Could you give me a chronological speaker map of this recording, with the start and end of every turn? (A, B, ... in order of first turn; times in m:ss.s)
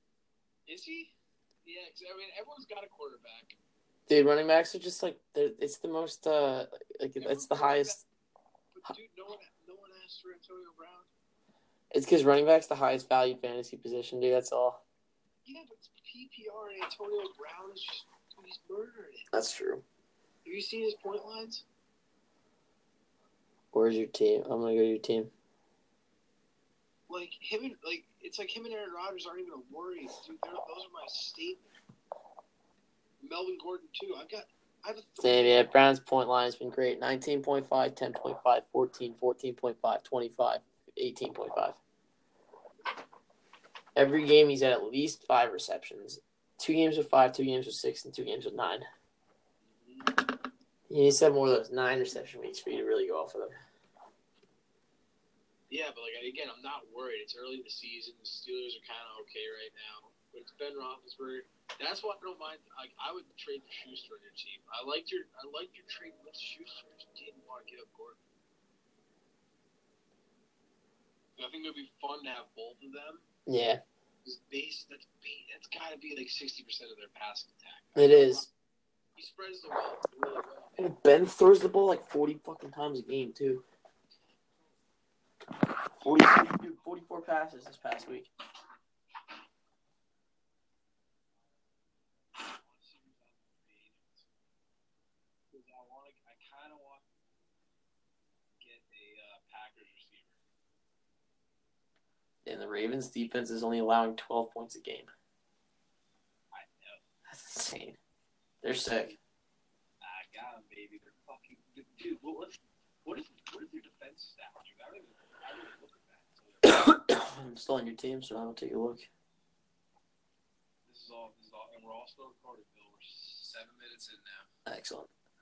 0:00.7-0:03.5 A
0:04.1-0:08.0 B
0:07.2-0:08.0 A
0:08.7-0:11.1 A
0:11.9-0:14.8 B
0:15.4-0:19.3 A
0:19.3-0:19.8 B
0:20.4-0:21.6 A
0:23.7-0:25.3 B
0:27.1-0:31.7 A
0:33.2-0:35.6 A
0:35.2-0:41.8 B
0:43.9-0:48.8 B
0:49.6-0:50.2 A
0:50.9-0:53.5 B
0:55.7-1:08.2 A
1:11.4-1:13.3 A
1:13.5-1:13.8 B
1:14.2-1:18.4 A
1:18.0-1:18.5 B
1:19.2-1:20.9 A
1:20.8-1:23.6 B
1:26.0-1:28.3 B
1:32.2-1:34.3 A
1:35.5-1:37.1 A
1:38.6-1:40.4 A
1:42.4-1:45.1 B
1:46.5-1:47.0 A
1:47.3-1:48.0 B
1:48.6-1:49.1 B
1:48.9-1:49.2 A
1:50.0-1:56.6 A
1:56.6-1:59.1 B
2:00.8-2:04.5 A
2:04.6-2:05.1 B